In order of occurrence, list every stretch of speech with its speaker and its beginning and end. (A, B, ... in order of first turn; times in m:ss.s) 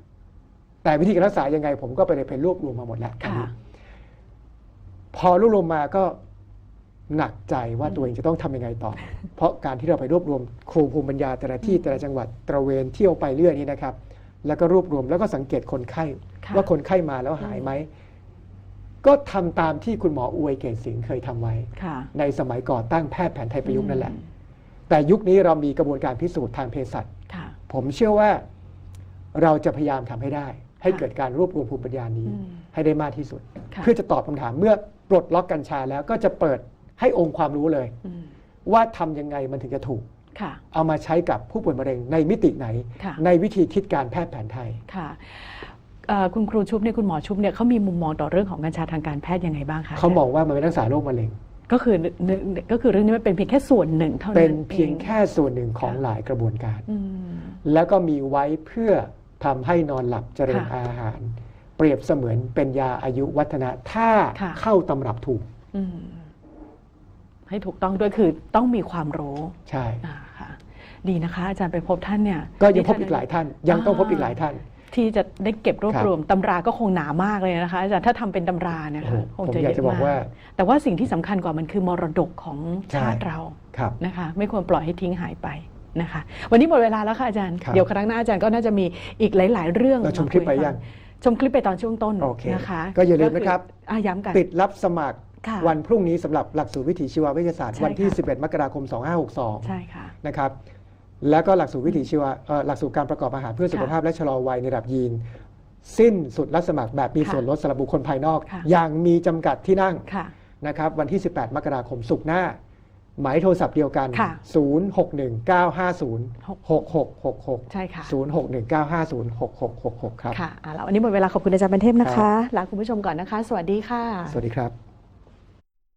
0:00.8-0:03.5 A
0:03.2-0:03.5 B
0:05.1-0:06.2 A
0:07.1-0:17.9 A
0:16.4-0:16.7 B
0:19.0-0:24.2 A
0:21.8-0:22.1 B
0:23.7-0:24.2 B
0:24.9-0:27.1 A
0:27.3-0:27.6 B
0:27.7-0:28.4 A
0:29.3-0:38.0 A
0:38.6-0:40.1 A
0:40.4-0:40.6 B
0:40.7-0:44.8 A
0:44.9-0:50.2 B
0:50.0-0:51.4 A
0:51.7-0:55.1 B
0:54.3-0:56.9 A
0:56.9-0:57.6 B
0:57.6-1:05.5 A
1:04.4-1:04.6 B
1:05.7-1:06.3 B
1:07.5-1:14.4 B
1:09.7-1:10.0 A
1:12.6-1:14.6 A
1:14.9-1:34.4 B
1:19.0-1:20.3 A
1:22.9-1:24.0 A
1:30.0-1:30.8 A
1:32.2-1:33.7 A
1:34.3-1:40.6 A
1:35.4-1:35.7 B
1:37.7-1:38.2 B
1:39.6-1:40.1 B
1:41.2-1:45.2 A
1:45.8-1:50.1 A
1:50.1-1:50.3 B
1:50.6-1:52.6 A
1:53.2-2:00.4 A
1:54.1-1:54.4 B
1:57.7-1:58.2 B
2:00.3-2:04.4 B
2:02.0-2:02.3 A
2:04.3-2:04.7 A